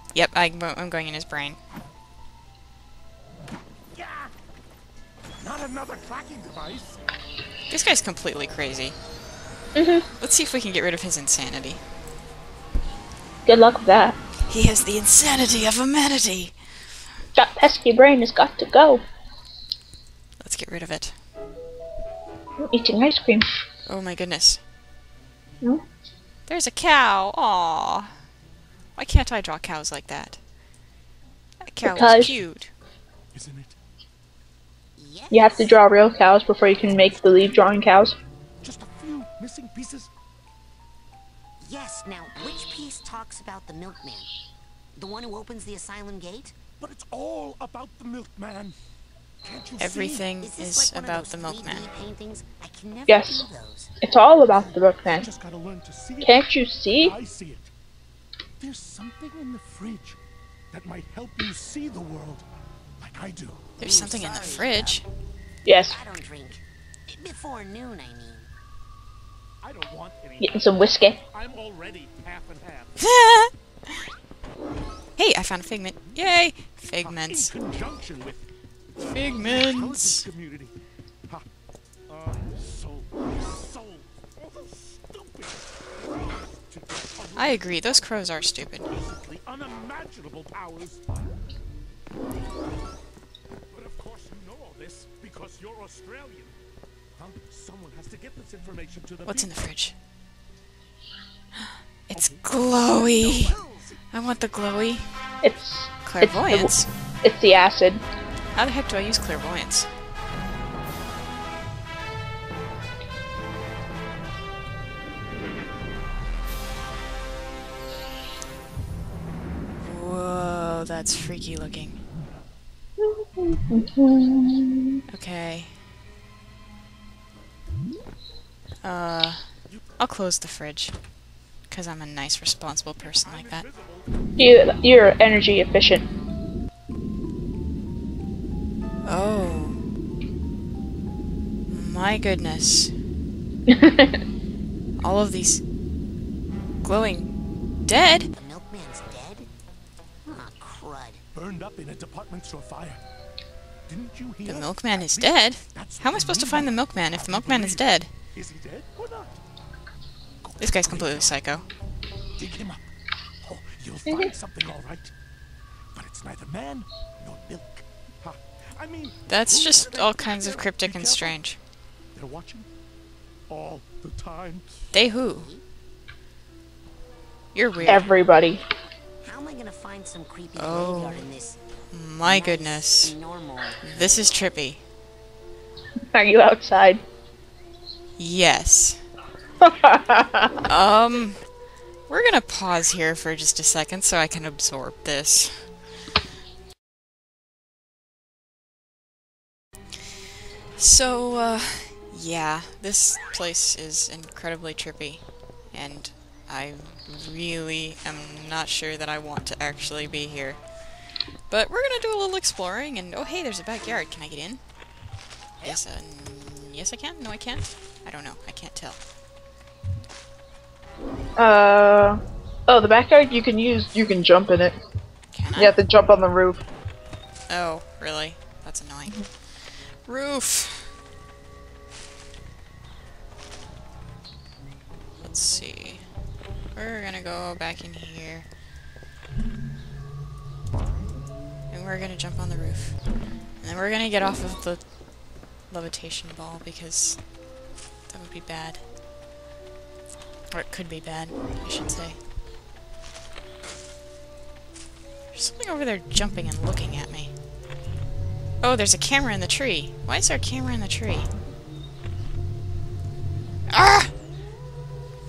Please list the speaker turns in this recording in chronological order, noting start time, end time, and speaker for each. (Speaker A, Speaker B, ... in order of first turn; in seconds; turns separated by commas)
Speaker A: 0.1-1.6, Speaker B: 3.9-4.3, Speaker B: 5.4-7.0, Speaker A: 7.7-9.0, Speaker C: 9.8-10.0, Speaker A: 10.2-11.8, Speaker C: 13.4-14.2, Speaker A: 14.5-16.6, Speaker C: 17.4-19.0, Speaker A: 20.4-21.1, Speaker C: 22.7-23.4, Speaker A: 23.9-24.6, Speaker A: 26.5-28.1, Speaker A: 28.9-30.4, Speaker A: 31.6-32.7, Speaker C: 31.8-32.4, Speaker B: 33.3-33.8, Speaker D: 35.0-35.8, Speaker C: 35.3-38.1, Speaker B: 38.6-40.1, Speaker D: 41.6-44.3, Speaker D: 45.0-46.6, Speaker B: 46.8-48.8, Speaker B: 49.4-50.3, Speaker A: 49.8-51.9, Speaker D: 50.4-54.0, Speaker C: 53.1-53.5, Speaker C: 54.0-55.3, Speaker D: 54.5-54.8, Speaker B: 55.0-57.7, Speaker C: 56.2-57.2, Speaker B: 58.6-60.2, Speaker B: 60.7-62.4, Speaker B: 63.0-63.7, Speaker A: 63.8-65.0, Speaker D: 63.8-65.0, Speaker C: 65.6-66.0, Speaker D: 65.8-68.5, Speaker B: 69.6-73.0, Speaker C: 70.4-71.2, Speaker A: 73.0-73.9, Speaker A: 75.2-77.5, Speaker B: 77.0-80.7, Speaker A: 79.0-80.2, Speaker B: 82.1-88.1, Speaker A: 87.3-88.9, Speaker B: 88.9-91.0, Speaker B: 93.7-96.6, Speaker B: 97.2-99.6, Speaker A: 99.2-99.9, Speaker A: 101.6-103.5, Speaker B: 102.2-102.5, Speaker B: 103.2-104.5, Speaker D: 103.2-103.9, Speaker A: 104.1-105.1, Speaker C: 105.4-108.0, Speaker A: 106.0-106.9, Speaker A: 108.5-109.9, Speaker A: 119.8-122.0, Speaker C: 123.0-125.0, Speaker A: 125.1-125.7, Speaker A: 128.8-129.4, Speaker A: 130.0-130.9, Speaker A: 131.7-133.6, Speaker B: 133.0-134.1, Speaker C: 134.4-136.1, Speaker A: 139.0-139.8, Speaker A: 141.7-142.9, Speaker C: 143.7-144.2, Speaker A: 145.0-145.6, Speaker A: 146.8-148.3, Speaker D: 148.3-149.5, Speaker D: 150.2-151.2, Speaker B: 151.3-153.0, Speaker B: 153.9-159.4, Speaker A: 154.4-158.1, Speaker B: 160.4-161.4, Speaker A: 160.6-161.6, Speaker B: 162.4-162.8, Speaker B: 163.4-165.1, Speaker B: 165.9-171.4, Speaker A: 169.3-171.6, Speaker B: 172.1-172.7, Speaker B: 173.5-174.8, Speaker A: 174.9-175.5, Speaker D: 175.2-175.6, Speaker A: 177.5-178.1, Speaker C: 177.8-178.6, Speaker D: 179.2-181.6, Speaker A: 180.6-181.2, Speaker A: 181.9-183.1, Speaker D: 182.2-184.5, Speaker A: 183.8-184.8, Speaker C: 186.1-187.0, Speaker A: 188.2-189.0, Speaker C: 189.6-190.7, Speaker A: 190.7-191.4, Speaker A: 192.1-195.7, Speaker A: 200.8-211.0, Speaker A: 211.5-214.6, Speaker A: 215.6-219.0, Speaker C: 221.4-224.8, Speaker A: 225.3-225.8, Speaker C: 225.5-226.6, Speaker A: 227.5-230.9, Speaker A: 235.2-236.0, Speaker A: 236.7-238.5, Speaker A: 241.7-243.0, Speaker A: 243.6-245.0, Speaker A: 245.6-247.3, Speaker A: 248.1-248.8, Speaker A: 250.5-252.2, Speaker A: 255.3-257.3, Speaker A: 258.6-261.3, Speaker A: 263.7-264.1